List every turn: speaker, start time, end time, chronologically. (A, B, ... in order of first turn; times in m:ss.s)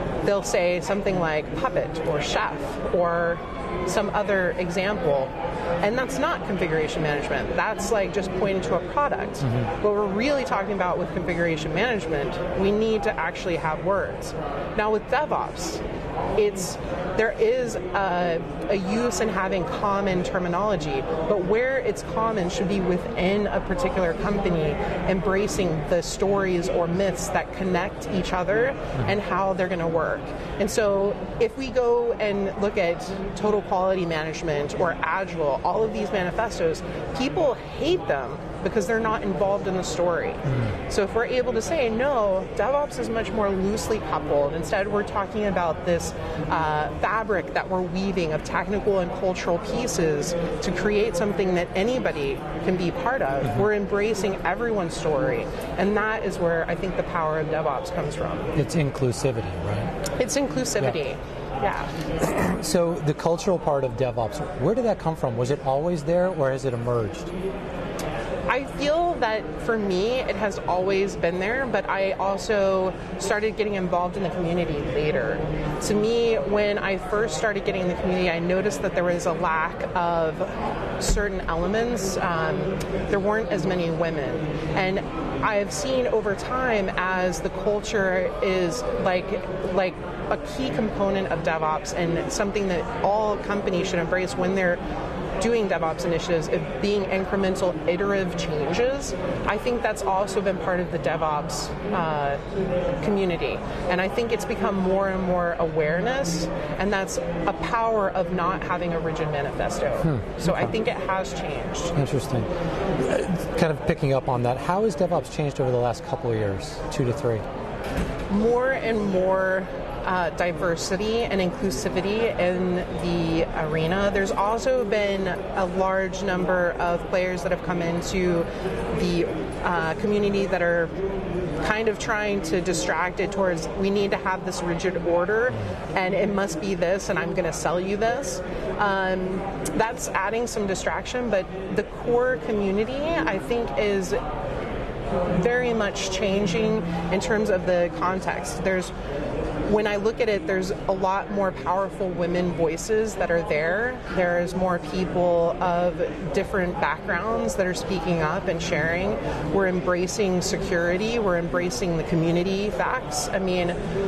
0:00.2-0:15.8 A
0:09.4-0:09.7 B
0:16.4-0:58.5 A
0:58.5-0:59.9 B
1:00.1-1:01.9 A
1:02.2-1:07.3 B
1:08.5-1:34.8 A
1:35.4-1:42.4 A
1:43.0-1:51.9 A
1:50.0-1:50.7 B
1:52.0-1:52.5 B
1:53.0-1:57.4 B
1:58.3-2:10.9 A
2:11.6-2:24.2 A
2:25.3-2:28.9 A
2:29.7-2:43.8 A